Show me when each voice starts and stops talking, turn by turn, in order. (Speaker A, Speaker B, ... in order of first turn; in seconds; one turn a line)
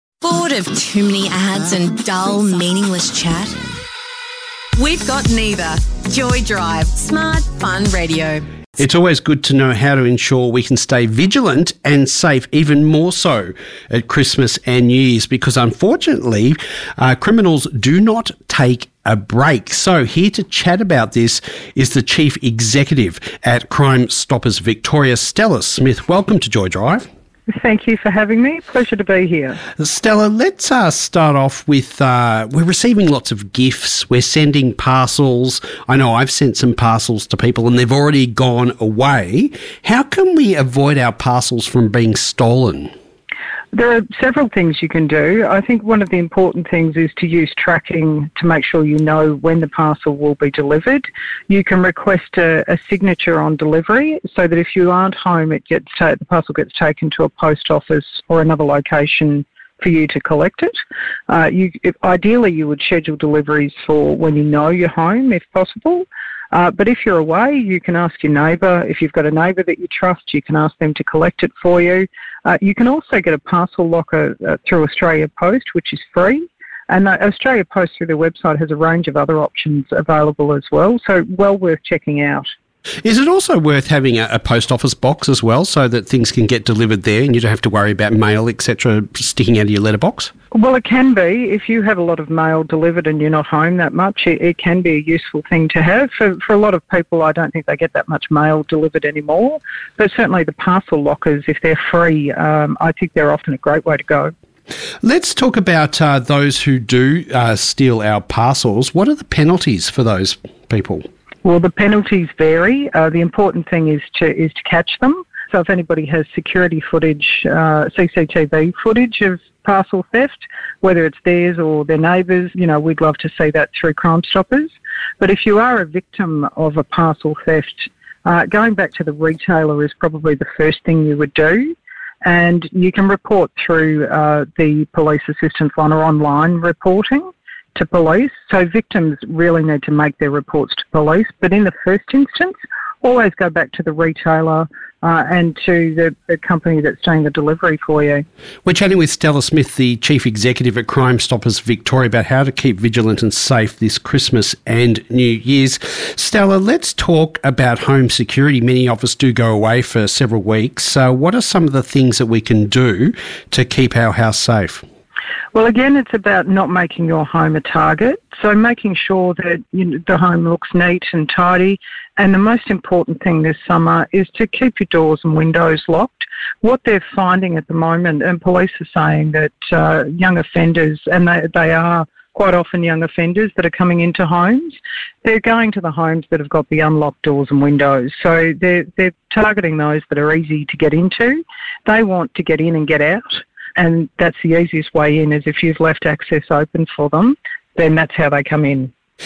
Speaker A: 0.2-3.6
Speaker A: 4.8-8.4
Speaker B: 8.8-27.1
Speaker C: 27.5-29.6
Speaker B: 29.8-42.9
Speaker C: 43.7-60.8
Speaker C: 61.3-82.5
Speaker B: 83.0-90.3
Speaker C: 90.5-104.3
Speaker B: 105.0-111.0
Speaker C: 111.4-148.2
Speaker B: 148.7-164.8
Speaker C: 165.5-198.9